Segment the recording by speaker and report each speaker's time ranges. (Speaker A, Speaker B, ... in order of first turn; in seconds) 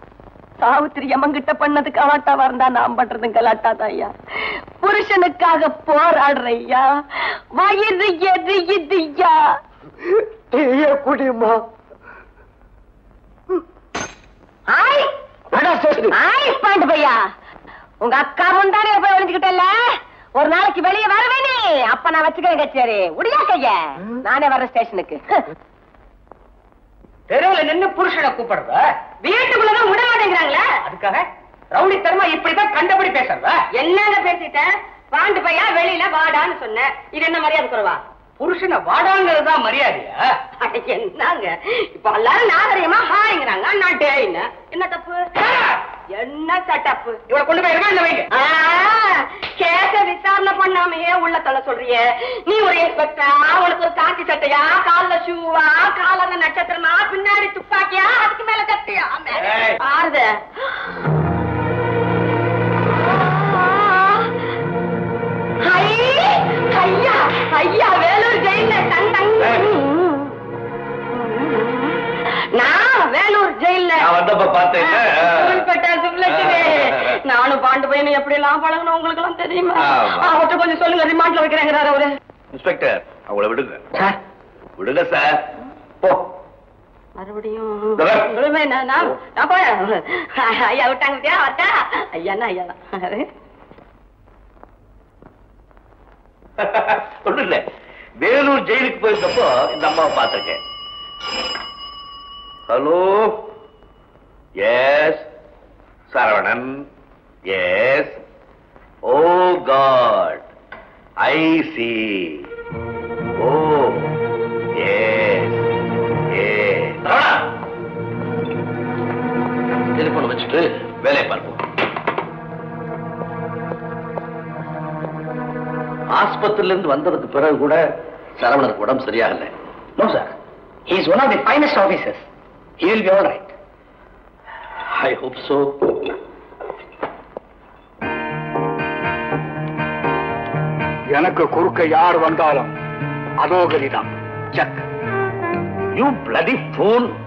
Speaker A: 0.6-4.1, 4.8-6.8, 7.6-9.3, 14.7-15.1, 16.1-17.2, 18.0-19.8, 20.4-25.2, 29.2-30.7, 33.7-38.0, 40.6-47.2, 48.3-60.3, 65.7-70.2, 71.2-72.0, 72.5-74.1, 74.8-82.1, 87.2-93.3
Speaker B: 27.3-28.8, 30.9-33.6, 38.4-40.3, 47.3-48.2, 130.0-130.3, 130.9-132.2, 132.8-133.5
Speaker C: 74.0-75.7, 76.3-77.1, 79.8-80.3, 82.5-83.8, 84.8-85.4, 88.0-88.3, 96.6-97.6, 98.2-100.6, 102.7-103.4, 104.6-105.2, 106.1-106.8, 107.5-108.2, 109.1-110.4, 111.2-112.4, 113.4-114.1, 114.8-115.6, 116.3-117.3, 120.0-121.6, 126.1-127.8, 128.4-129.5, 134.9-135.8, 145.9-147.1
Speaker D: 141.1-142.7, 143.4-144.8